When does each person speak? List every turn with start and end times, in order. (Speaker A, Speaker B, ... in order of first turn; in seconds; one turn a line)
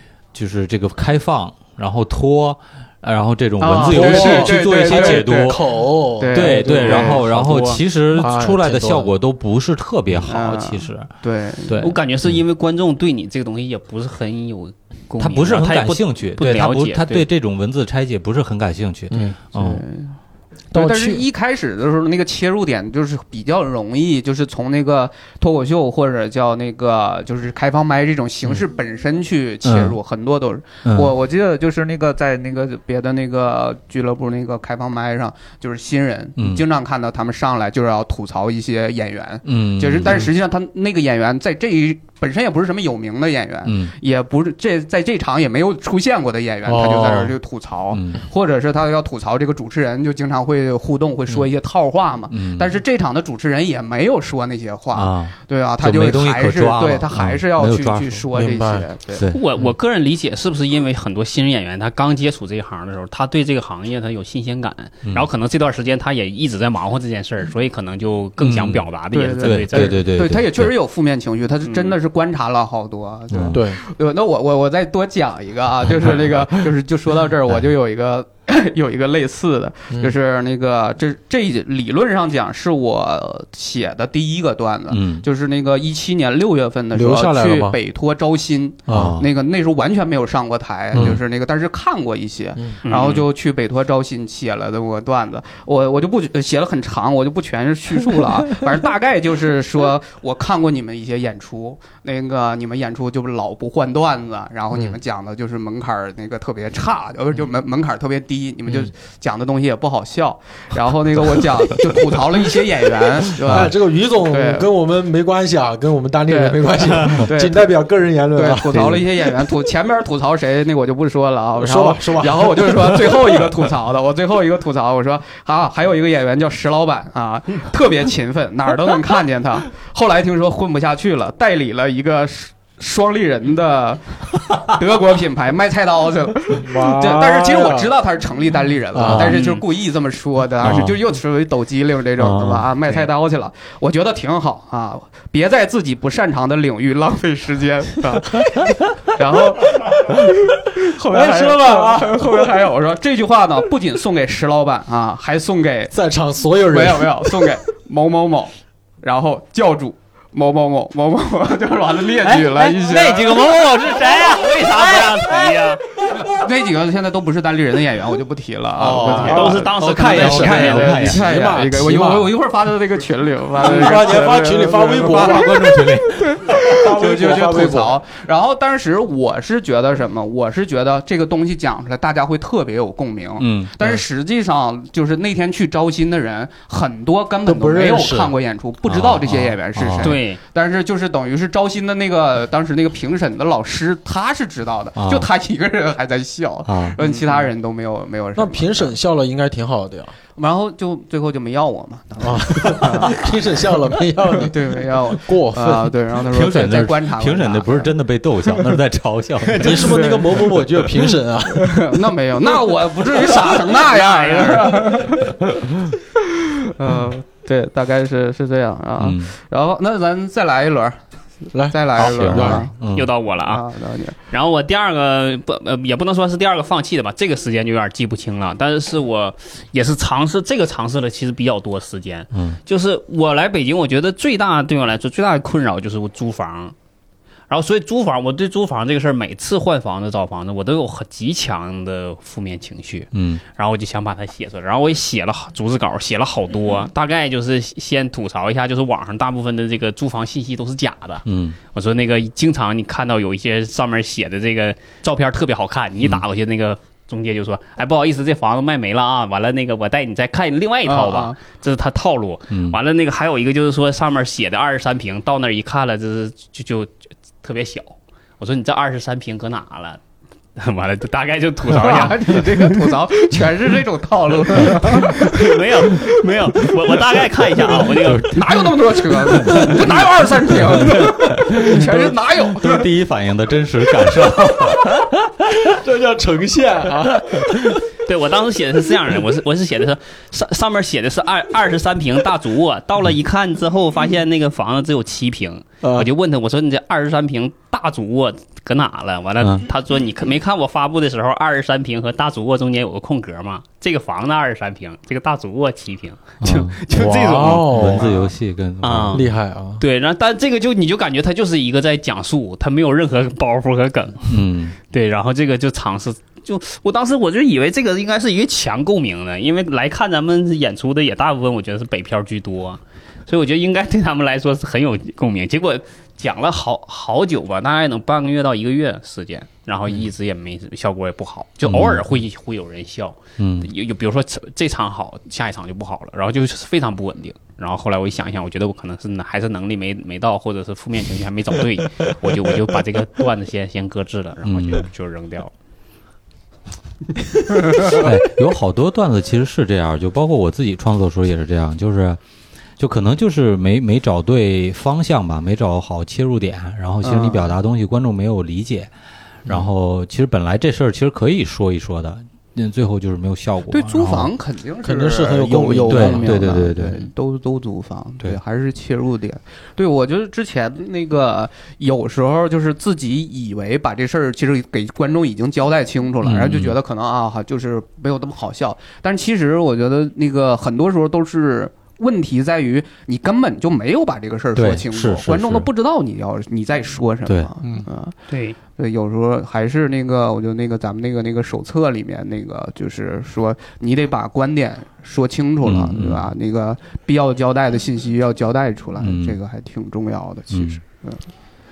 Speaker A: 0.3-5.6
Speaker B: 3.6-5.6
Speaker C: 3.7-9.1
Speaker B: 6.2-7.2
Speaker A: 6.3-11.1
Speaker D: 6.9-7.8
Speaker B: 10.3-11.8
Speaker A: 11.7-12.4
Speaker D: 11.8-17.3
Speaker A: 15.2-19.8
Speaker C: 19.1-19.4
Speaker B: 19.5-20.2
Speaker C: 20.7-21.2
Speaker B: 20.7-59.2
Speaker A: 29.6-30.0
Speaker A: 30.9-31.1
Speaker A: 36.4-36.6
Speaker A: 39.4-40.3
Speaker A: 43.6-43.9
Speaker C: 46.6-47.3
Speaker A: 47.9-48.2
Speaker A: 52.3-52.7
Speaker A: 54.9-58.3
Speaker C: 58.3-58.9
Speaker A: 59.1-59.4
Speaker D: 59.3-70.0
Speaker A: 68.4-68.8
Speaker B: 69.1-114.7
Speaker A: 69.4-70.7
Speaker D: 71.6-71.9
Speaker A: 73.3-73.6
Speaker C: 73.5-73.8
Speaker A: 84.9-85.2
Speaker C: 86.9-87.8
Speaker C: 88.9-89.2
Speaker A: 88.9-89.3
Speaker A: 90.9-91.2
Speaker C: 90.9-91.2
Speaker D: 92.8-93.3
Speaker C: 113.4-119.3
Speaker B: 116.3-117.7
Speaker B: 118.3-155.9
Speaker C: 121.6-123.5
Speaker C: 136.5-137.9
Speaker C: 138.9-139.4
Speaker A: 139.0-139.3
Speaker D: 139.3-139.6
Speaker A: 140.6-141.0
Speaker A: 142.2-142.7
Speaker C: 150.9-152.5
Speaker C: 155.9-157.6
Speaker B: 156.7-163.4
Speaker A: 162.2-165.5
Speaker D: 163.0-165.8
Speaker B: 166.1-169.7
Speaker C: 168.8-172.3
Speaker D: 169.1-171.1
Speaker A: 169.7-171.2
Speaker B: 170.4-198.9
Speaker C: 173.6-178.0
Speaker A: 175.0-176.3
Speaker A: 183.4-183.7
Speaker C: 187.4-188.3
Speaker A: 188.9-190.1
Speaker D: 190.0-190.4
Speaker A: 194.9-195.3
Speaker A: 196.7-197.0
Speaker C: 197.1-197.4
Speaker C: 198.3-200.1
Speaker B: 200.4-203.3
Speaker C: 202.2-205.9
Speaker B: 204.2-207.9
Speaker A: 206.3-209.8
Speaker D: 209.4-209.9
Speaker C: 209.6-212.0
Speaker B: 209.6-210.5
Speaker B: 211.6-215.4
Speaker D: 213.7-215.0
Speaker B: 216.4-221.0
Speaker A: 219.0-219.3
Speaker C: 221.5-222.7
Speaker B: 221.7-222.7
Speaker A: 222.1-223.1
Speaker D: 222.9-223.6
Speaker B: 223.4-224.2
Speaker D: 224.3-236.7
Speaker A: 232.3-232.6
Speaker D: 237.5-270.0
Speaker A: 243.1-243.4
Speaker A: 251.3-251.6
Speaker B: 260.9-261.4
Speaker A: 262.5-262.8
Speaker D: 270.6-272.9
Speaker B: 271.7-276.0
Speaker D: 274.6-278.4
Speaker A: 278.0-279.9
Speaker B: 278.2-282.9
Speaker A: 280.5-285.6
Speaker C: 285.6-287.8
Speaker D: 288.0-308.3
Speaker C: 295.8-296.1
Speaker A: 306.4-309.2
Speaker C: 307.1-308.1
Speaker D: 308.8-309.3
Speaker C: 309.1-309.8
Speaker D: 309.8-345.5
Speaker A: 314.3-314.8
Speaker A: 331.6-332.1
Speaker A: 333.4-333.7
Speaker A: 344.4-344.9
Speaker A: 347.7-352.2
Speaker A: 352.8-358.9
Speaker B: 357.0-357.5
Speaker A: 359.4-364.3
Speaker B: 363.7-388.1
Speaker C: 364.8-366.6
Speaker A: 365.9-367.1
Speaker A: 376.2-376.8
Speaker A: 384.6-385.7
Speaker D: 388.3-388.6
Speaker B: 388.7-401.2
Speaker A: 395.6-396.3
Speaker A: 399.0-399.4
Speaker A: 400.5-400.8